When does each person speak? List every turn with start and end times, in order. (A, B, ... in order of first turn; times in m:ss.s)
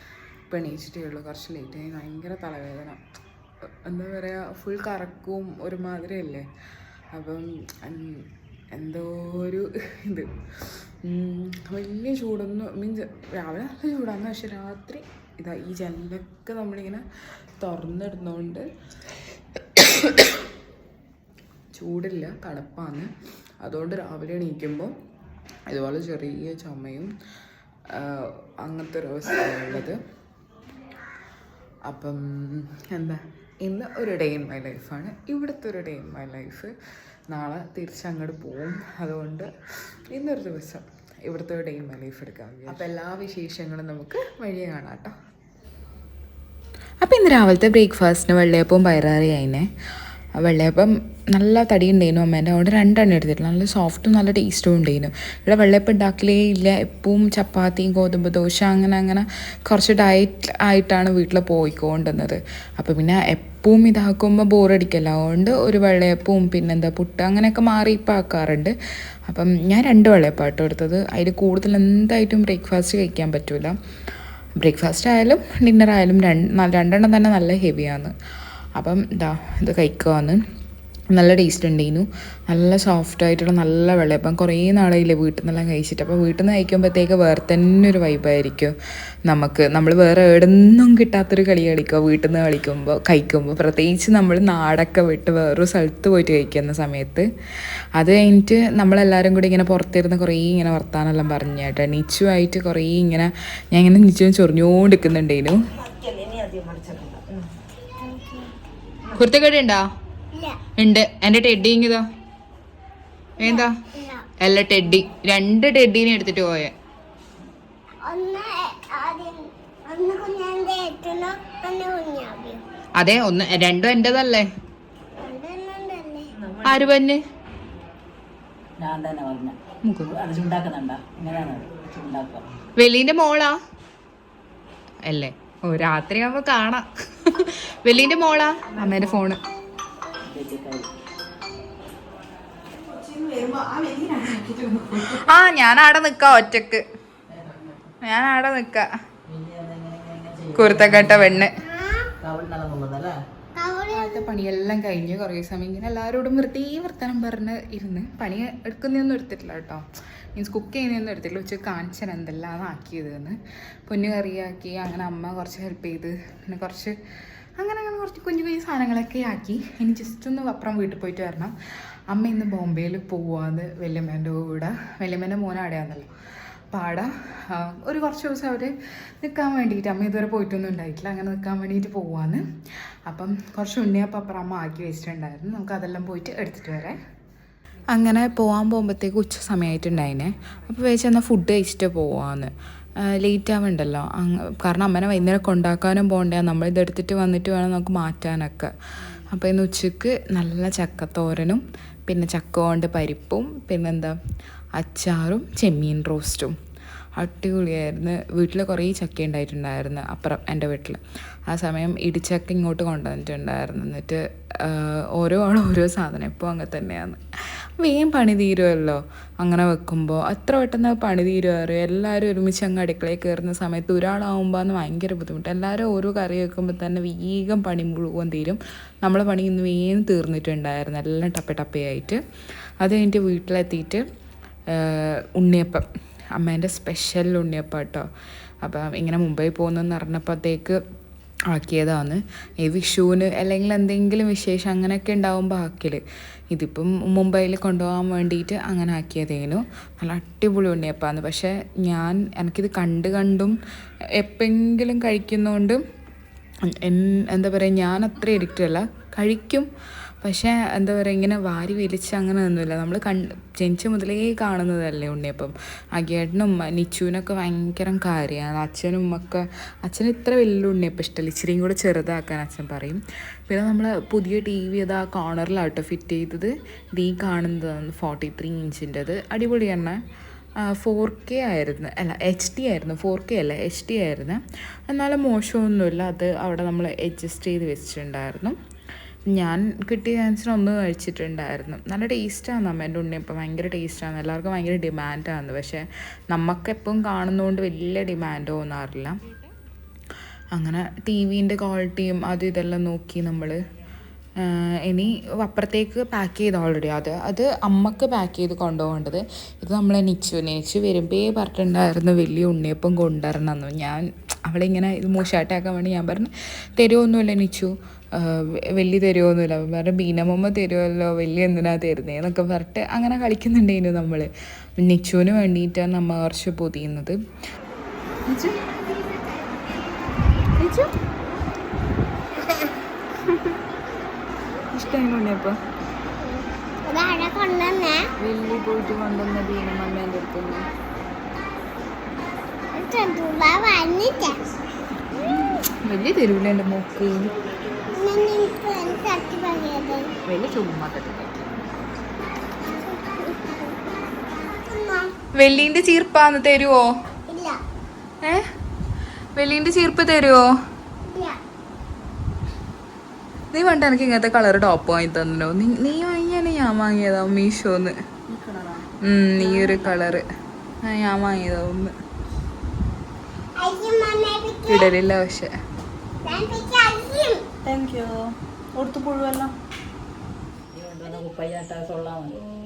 0:00.5-0:03.0 A
0:03.9-0:06.5 A
0:07.1-0:17.0 A
0:17.6-0:18.7 A
0:19.8-0:20.3 A
0:21.7-0:23.1 A
0:23.6-0:24.9 A
0:25.7-0:27.1 A
0:27.9-0:30.0 A
0:31.8-0:36.7 A
0:37.3-0:39.5 A
0:40.1-0:45.1 A
0:47.0-0:49.7 A
0:50.4-1:08.7 A
1:09.3-1:13.8 A
1:14.6-1:18.1 A
1:18.8-1:20.4 A
1:21.1-1:28.7 A
1:29.3-1:37.3 A
1:38.0-1:45.6 A
1:45.8-1:47.5 B
1:48.0-1:48.5 C
1:49.2-1:49.8 A
1:50.3-1:50.6 C
1:50.8-1:52.0 A
1:53.4-1:53.7 A
1:53.4-1:54.3 C
1:54.4-1:56.7 A
1:58.0-2:02.6 C
2:03.0-2:04.5 A
2:05.2-2:06.3 C
2:06.4-2:06.9 B
2:06.6-2:07.2 A
2:08.8-2:12.4 B
2:09.8-2:10.1 A
2:12.8-2:13.6 A
2:15.0-2:19.4 A
2:18.8-2:19.2 B
2:20.3-2:20.9 B
2:23.0-2:25.3 B
2:25.0-2:26.8 A
2:27.3-2:27.9 B
2:28.0-2:28.9 A
2:29.3-2:31.4 B
2:30.6-2:31.6 A
2:31.6-2:32.1 C
2:32.2-2:33.2 B
2:33.6-2:34.3 C
2:33.9-2:39.8 A
2:40.4-2:47.0 A
2:47.6-2:51.6 A
2:52.1-2:56.1 A
2:56.7-3:02.4 A
3:03.1-3:07.0 A
3:07.9-3:24.2 A
3:24.8-3:26.6 A
3:27.2-3:37.2 A
3:37.8-3:52.2 A
3:52.8-3:54.1 A
3:54.7-3:58.1 A
3:58.6-4:00.8 A
4:01.5-4:13.6 A
4:14.2-4:15.8 A
4:16.6-4:19.7 A
4:20.2-4:40.0 A
4:40.6-4:48.6 A
4:49.3-4:59.2 A
5:00.5-5:03.6 A
5:04.4-5:27.2 A
5:28.3-5:28.6 A
5:30.6-5:30.9 A
5:33.3-5:33.6 A
5:34.7-5:35.6 A
5:36.2-5:38.0 C
5:38.2-5:40.7 A
5:42.7-5:44.4 C
5:45.4-5:47.3 A
5:47.9-5:50.1 C
5:50.3-5:51.5 A
5:52.8-5:53.8 C
5:54.4-5:55.1 C
5:55.4-5:56.8 A
5:57.3-5:57.6 C
5:59.4-6:00.4 A
6:01.1-6:01.4 C
6:03.5-6:08.0 A
6:08.3-6:08.9 B
6:09.0-6:10.2 A
6:09.4-6:10.0 B
6:10.8-6:11.9 A
6:13.6-6:14.9 C
6:14.7-6:15.5 A
6:16.2-6:17.4 C
6:17.6-6:19.5 B
6:20.7-6:22.4 B